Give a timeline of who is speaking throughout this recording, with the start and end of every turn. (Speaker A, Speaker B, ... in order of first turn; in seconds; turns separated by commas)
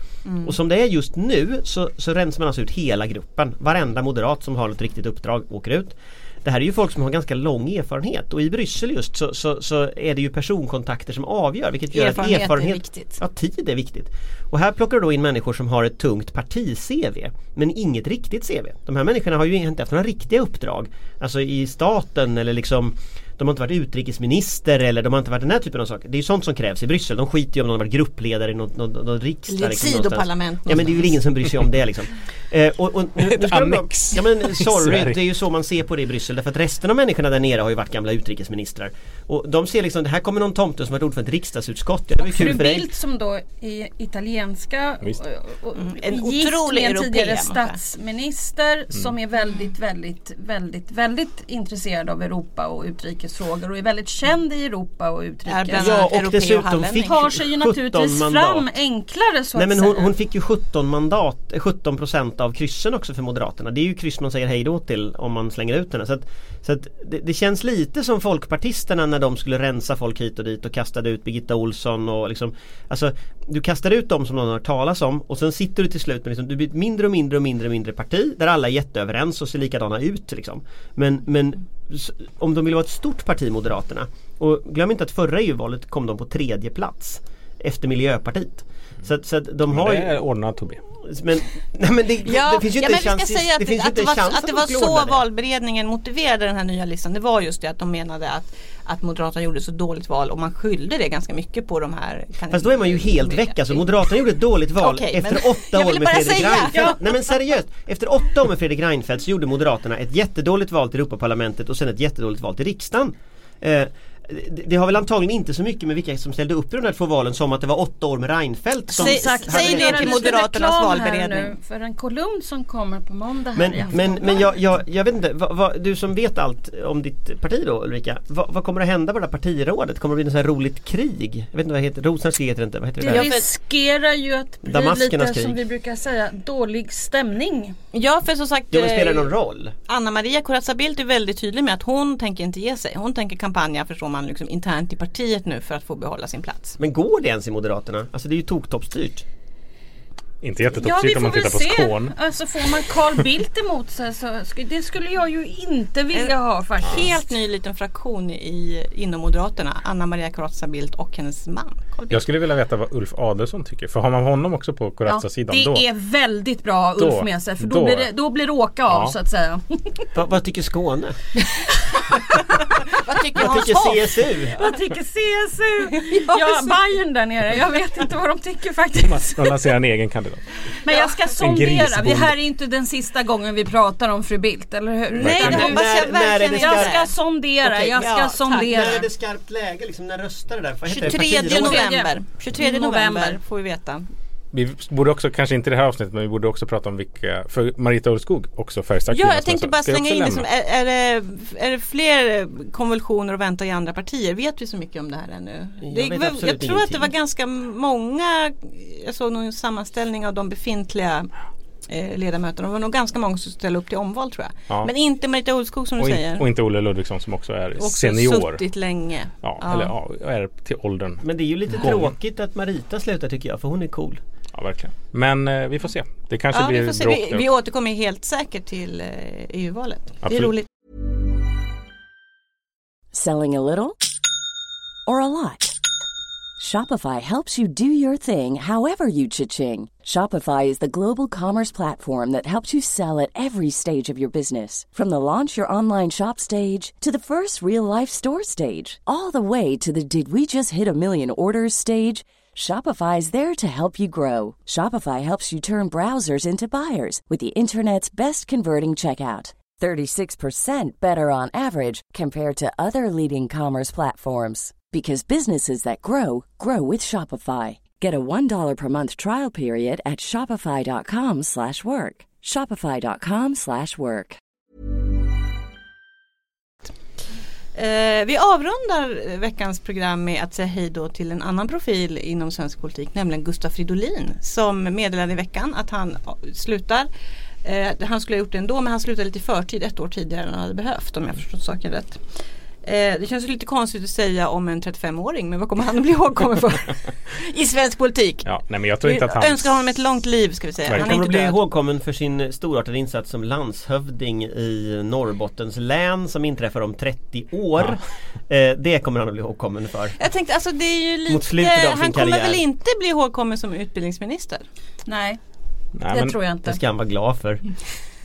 Speaker A: 0.2-0.5, Speaker B: 0.4-42.9, Speaker A: 11.9-13.2, Speaker A: 29.5-31.1, Speaker C: 33.2-35.2, Speaker D: 42.1-56.1, Speaker A: 45.8-47.8, Speaker A: 55.5-57.2, Speaker B: 55.7-58.7, Speaker D: 57.0-60.1, Speaker B: 59.5-90.2, Speaker C: 89.7-90.8, Speaker B: 91.0-95.2, Speaker A: 92.2-104.0, Speaker B: 102.5-120.3, Speaker A: 104.8-107.4, Speaker A: 118.9-121.5, Speaker D: 118.9-124.5, Speaker B: 123.5-133.3, Speaker D: 133.0-137.8, Speaker A: 133.1-133.5, Speaker B: 134.6-135.6, Speaker A: 137.9-139.3, Speaker B: 138.7-139.7, Speaker A: 139.9-146.8, Speaker B: 146.8-149.2, Speaker C: 150.4-152.1, Speaker D: 150.7-157.3, Speaker A: 156.1-162.2, Speaker C: 162.1-165.8, Speaker D: 165.0-170.1, Speaker C: 167.0-168.1, Speaker B: 170.1-171.2, Speaker D: 171.8-172.4, Speaker A: 172.9-174.3, Speaker B: 173.3-174.5, Speaker D: 174.6-179.7, Speaker A: 176.1-176.7, Speaker C: 179.0-180.5, Speaker D: 180.8-189.1, Speaker C: 181.4-182.3, Speaker A: 185.2-187.1, Speaker C: 185.2-185.7, Speaker B: 185.2-187.0, Speaker B: 187.6-191.8, Speaker A: 188.0-188.9, Speaker A: 190.9-194.0, Speaker D: 191.5-193.4, Speaker C: 194.5-200.4, Speaker A: 199.1-211.3, Speaker B: 205.8-207.1, Speaker A: 211.9-216.5, Speaker C: 216.0-218.6, Speaker A: 217.8-219.9, Speaker C: 219.4-222.1, Speaker B: 221.2-224.2, Speaker C: 224.5-227.5, Speaker A: 226.5-230.7, Speaker C: 230.2-230.5, Speaker E: 233.1-234.0, Speaker E: 235.1-235.8, Speaker E: 236.6-274.4, Speaker A: 277.7-287.1, Speaker A: 287.6-301.6, Speaker C: 298.4-299.8, Speaker C: 300.9-301.3, Speaker B: 300.9-310.2, Speaker A: 310.2-314.7, Speaker B: 311.3-312.6, Speaker D: 315.1-315.4, Speaker C: 316.0-316.4, Speaker D: 316.1-316.8, Speaker B: 316.6-317.6